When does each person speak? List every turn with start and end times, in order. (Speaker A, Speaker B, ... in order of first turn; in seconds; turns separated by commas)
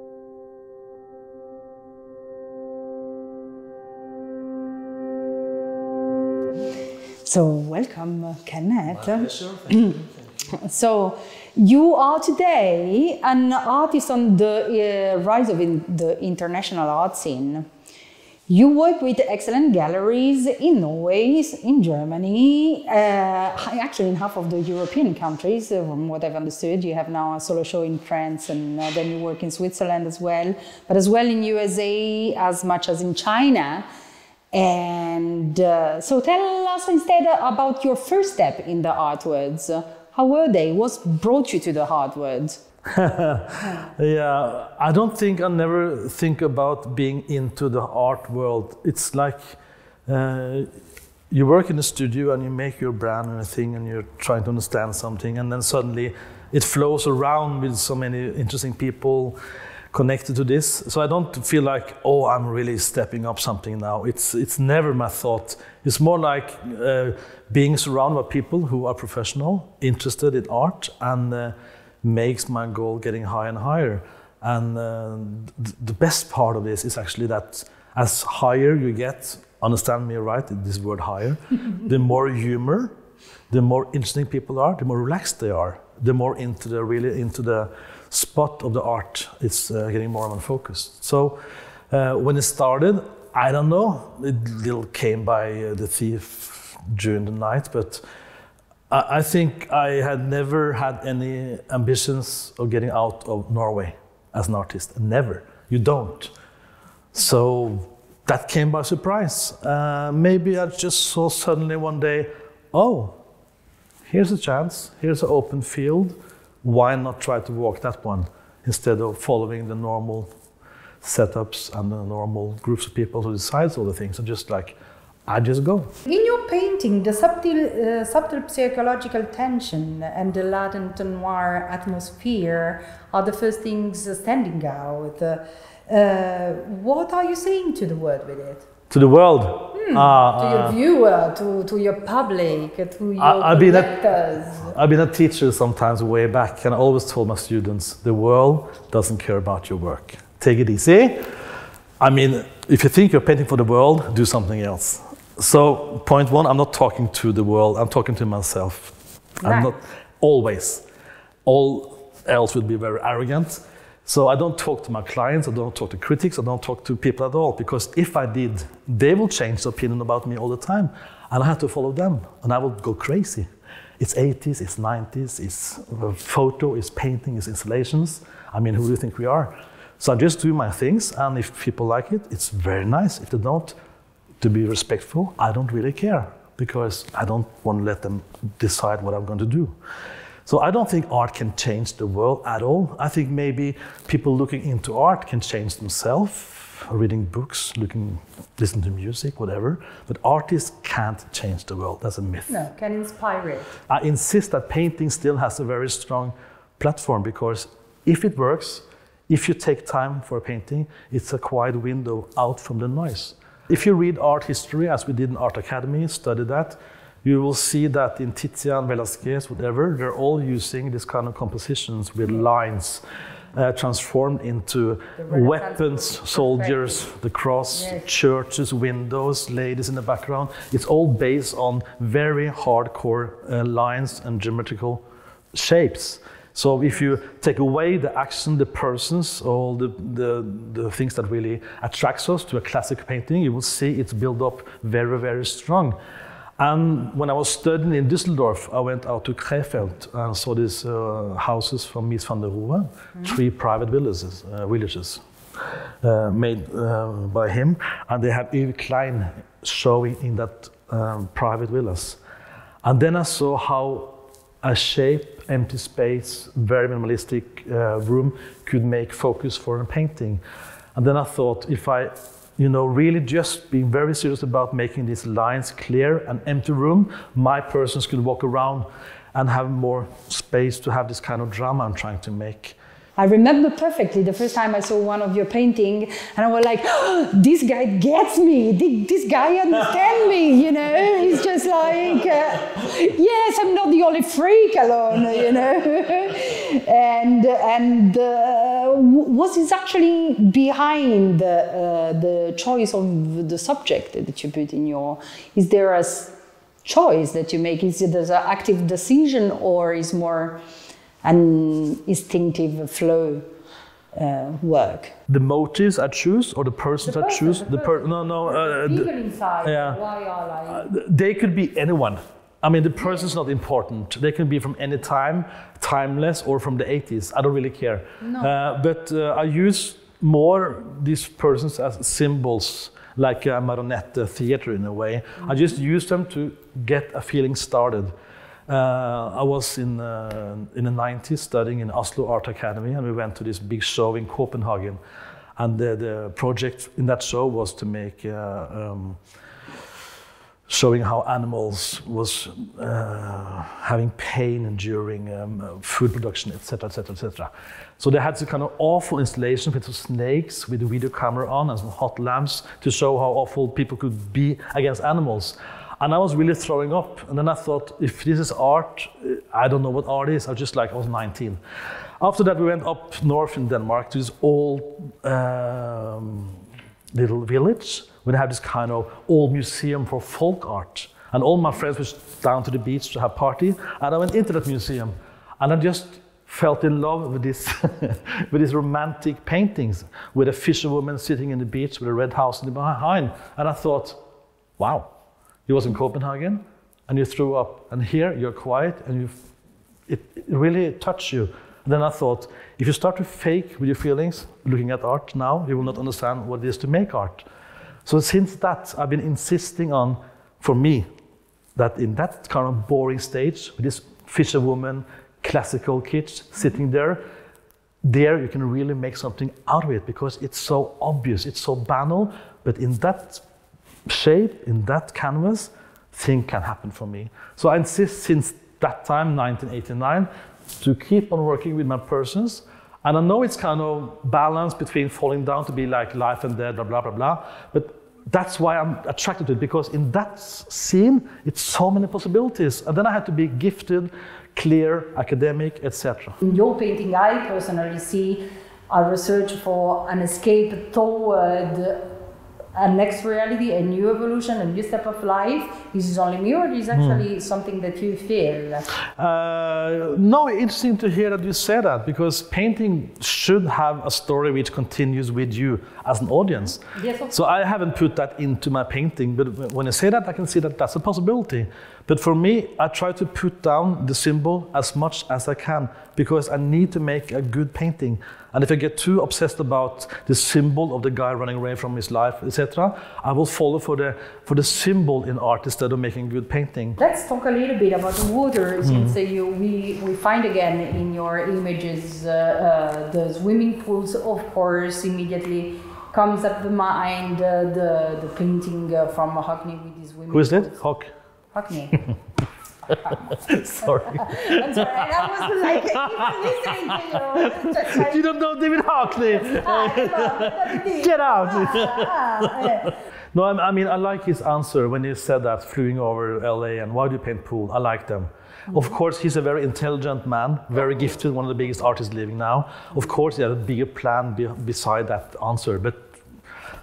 Speaker A: 7.2-17.7, Speaker B: 9.3-9.6, Speaker A: 18.5-33.8, Speaker A: 34.5-42.6, Speaker B: 42.9-50.7, Speaker A: 43.6-43.9, Speaker B: 51.3-59.4, Speaker B: 59.9-82.9, Speaker B: 83.5-91.4, Speaker B: 91.9-98.0, Speaker B: 98.9-106.3, Speaker B: 107.1-113.2, Speaker B: 114.1-120.3, Speaker B: 121.0-125.9, Speaker A: 126.0-138.7, Speaker B: 138.9-140.8, Speaker A: 139.7-144.7, Speaker B: 143.2-151.2, Speaker B: 152.0-160.8, Speaker A: 159.4-159.7, Speaker B: 161.4-173.5, Speaker B: 174.0-183.8, Speaker B: 184.4-189.8, Speaker B: 190.4-202.5, Speaker A: 202.5-203.7, Speaker B: 203.9-223.0, Speaker B: 223.5-235.0, Speaker A: 225.2-227.0, Speaker A: 227.7-228.1, Speaker B: 235.5-246.0, Speaker B: 246.6-255.2, Speaker B: 256.0-262.2, Speaker B: 262.8-270.4, Speaker B: 270.9-282.8, Speaker A: 283.2-310.6, Speaker A: 311.2-313.4, Speaker A: 314.1-315.1, Speaker B: 315.3-319.1, Speaker A: 317.0-320.9, Speaker B: 319.6-320.0, Speaker B: 320.7-338.1, Speaker A: 328.2-328.5, Speaker B: 338.7-345.0, Speaker B: 345.6-349.2, Speaker B: 350.7-371.6, Speaker B: 372.2-376.6, Speaker B: 377.1-394.2, Speaker B: 394.8-395.1, Speaker B: 395.7-399.4, Speaker B: 400.1-407.4, Speaker B: 408.1-411.1, Speaker B: 411.8-417.2, Speaker B: 418.0-423.4, Speaker B: 424.1-430.3, Speaker B: 430.8-446.4, Speaker A: 446.4-452.1, Speaker A: 452.7-458.9, Speaker B: 456.9-457.2, Speaker B: 459.2-487.0, Speaker A: 466.9-467.4, Speaker A: 487.0-500.8, Speaker B: 488.8-489.1, Speaker B: 500.3-501.1, Speaker A: 501.5-502.0, Speaker B: 502.9-526.2, Speaker A: 502.9-503.2, Speaker A: 503.8-508.3, Speaker A: 509.1-512.9